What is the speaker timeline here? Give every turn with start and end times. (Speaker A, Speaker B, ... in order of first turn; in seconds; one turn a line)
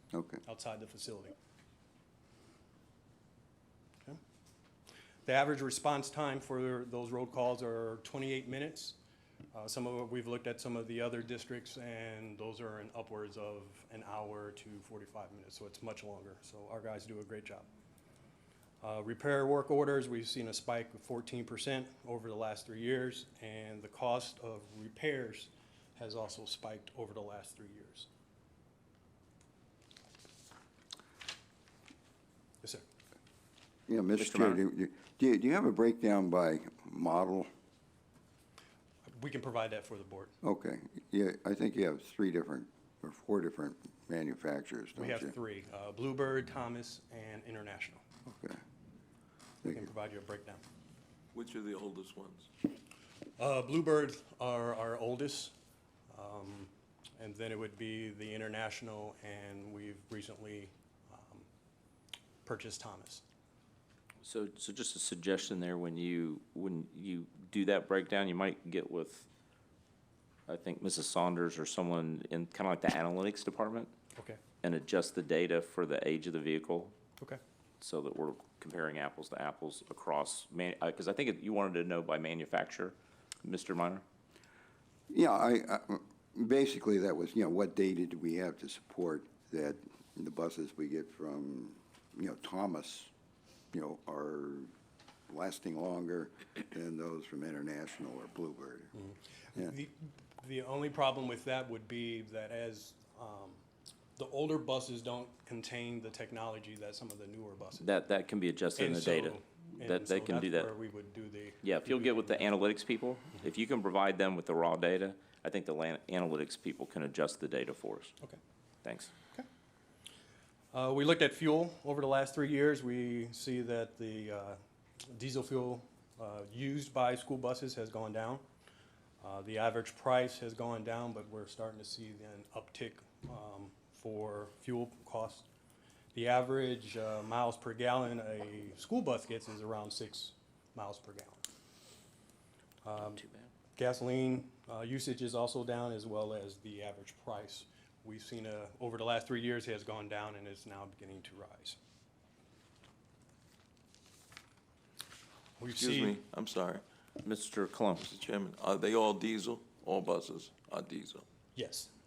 Speaker A: 0.1-0.4
Speaker B: 0.4-1.4
Speaker B: 5.3-9.0
Speaker B: 9.5-17.7
Speaker B: 18.8-28.1
Speaker A: 33.9-37.5
Speaker C: 34.2-34.6
Speaker B: 39.1-40.3
Speaker A: 40.4-45.3
Speaker B: 45.0-48.0
Speaker A: 48.3-48.6
Speaker A: 49.6-49.9
Speaker B: 49.6-50.6
Speaker D: 51.3-52.5
Speaker B: 53.4-55.5
Speaker B: 56.1-61.5
Speaker B: 62.5-63.2
Speaker C: 64.2-69.3
Speaker C: 70.5-73.9
Speaker C: 74.6-76.9
Speaker C: 77.8-84.0
Speaker A: 85.1-93.1
Speaker A: 93.7-94.7
Speaker A: 95.3-98.9
Speaker B: 99.0-103.6
Speaker B: 104.2-107.9
Speaker C: 107.8-110.7
Speaker B: 108.8-112.2
Speaker C: 111.6-118.2
Speaker C: 118.8-119.1
Speaker B: 120.7-128.4
Speaker B: 129.2-135.5
Speaker B: 136.1-141.4
Speaker B: 142.8-143.2
Speaker B: 143.8-151.8
Speaker B: 155.6-156.2
Speaker D: 155.8-156.8
Speaker C: 157.2-158.2
Speaker D: 158.1-161.2
Speaker B: 161.6-161.9